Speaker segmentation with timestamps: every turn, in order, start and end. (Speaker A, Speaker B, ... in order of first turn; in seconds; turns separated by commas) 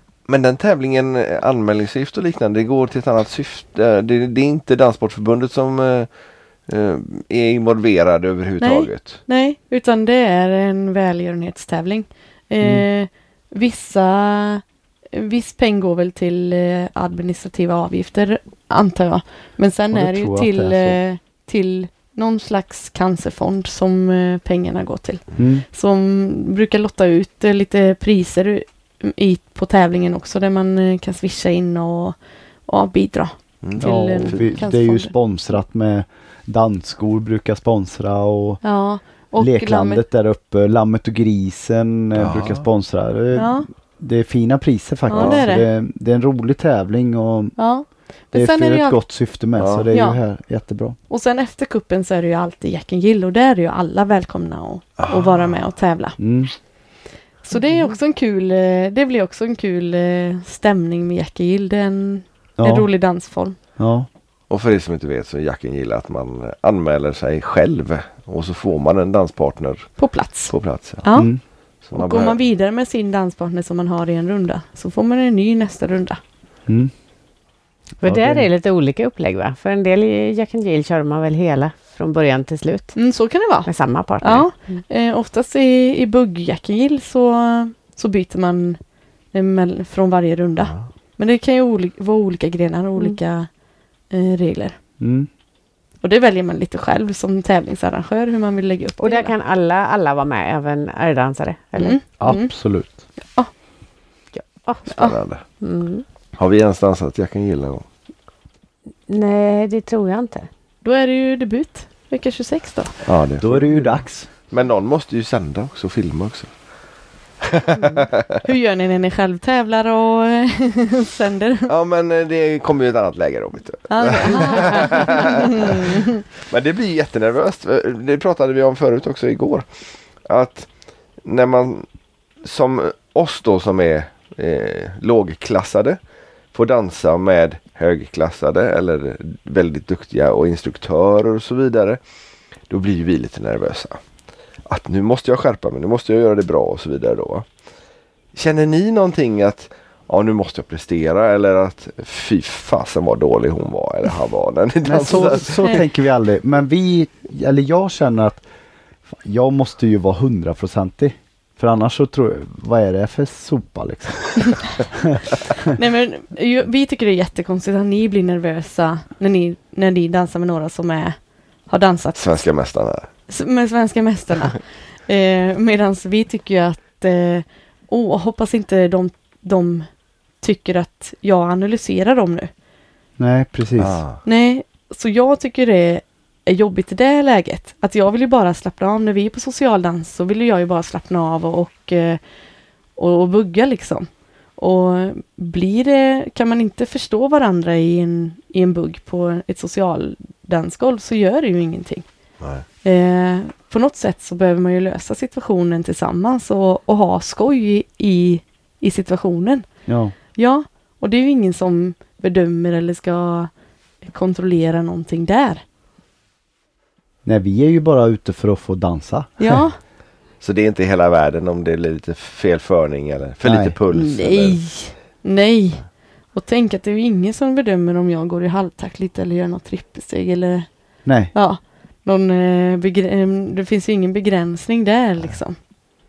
Speaker A: 0.3-6.1, Speaker A: 6.7-9.2, Speaker B: 8.6-35.1, Speaker C: 19.9-21.0, Speaker C: 25.4-25.6, Speaker A: 33.6-34.4, Speaker C: 33.8-38.6, Speaker B: 38.6-40.0, Speaker C: 39.4-47.5, Speaker A: 42.1-42.6, Speaker B: 43.3-43.6, Speaker B: 45.1-45.7, Speaker A: 45.1-45.4, Speaker B: 47.6-49.0, Speaker C: 48.3-51.0, Speaker A: 49.6-49.9, Speaker B: 49.9-50.2, Speaker B: 51.1-56.2, Speaker A: 55.0-55.5, Speaker C: 56.2-56.5, Speaker B: 57.4-63.6, Speaker C: 62.6-62.9, Speaker C: 63.8-64.1, Speaker A: 64.5-70.0, Speaker B: 70.0-71.3, Speaker A: 70.5-71.0, Speaker C: 71.1-71.4, Speaker A: 71.8-72.4, Speaker B: 71.9-76.2, Speaker D: 78.0-83.0, Speaker C: 78.0-78.5, Speaker B: 83.0-83.7, Speaker D: 83.6-84.8, Speaker B: 84.2-88.8, Speaker B: 89.3-93.5, Speaker B: 94.1-94.8, Speaker C: 95.0-95.3, Speaker B: 96.0-99.3, Speaker D: 99.0-102.0, Speaker B: 101.8-102.5, Speaker C: 102.2-103.0, Speaker D: 104.3-104.8, Speaker A: 104.8-105.4, Speaker B: 104.9-105.2, Speaker D: 105.6-106.0, Speaker A: 106.4-107.8, Speaker D: 109.1-110.5, Speaker B: 110.8-113.0, Speaker A: 113.0-116.5, Speaker C: 113.4-114.3, Speaker A: 117.4-118.4, Speaker B: 118.4-121.7, Speaker A: 121.7-129.6, Speaker B: 123.9-126.2, Speaker A: 130.2-130.7, Speaker A: 131.2-131.8, Speaker A: 132.4-136.0, Speaker A: 136.5-142.0, Speaker A: 142.7-144.0, Speaker A: 144.7-147.4, Speaker A: 148.3-155.8, Speaker C: 154.8-158.4, Speaker B: 155.1-155.8, Speaker C: 159.2-164.3, Speaker C: 164.9-165.3, Speaker B: 165.6-171.2, Speaker B: 171.7-172.4, Speaker A: 172.2-173.1, Speaker B: 173.3-179.9, Speaker B: 180.4-182.5, Speaker C: 183.2-184.0, Speaker A: 183.8-184.2, Speaker B: 184.2-192.2, Speaker B: 193.0-202.0, Speaker B: 202.8-209.7, Speaker C: 209.9-210.1, Speaker B: 210.3-213.5, Speaker B: 214.0-215.6, Speaker C: 217.2-219.6, Speaker B: 219.4-219.7, Speaker A: 220.4-224.6, Speaker C: 223.4-223.7, Speaker B: 223.9-225.8, Speaker B: 226.3-230.7, Speaker C: 231.0-231.3, Speaker B: 231.3-235.6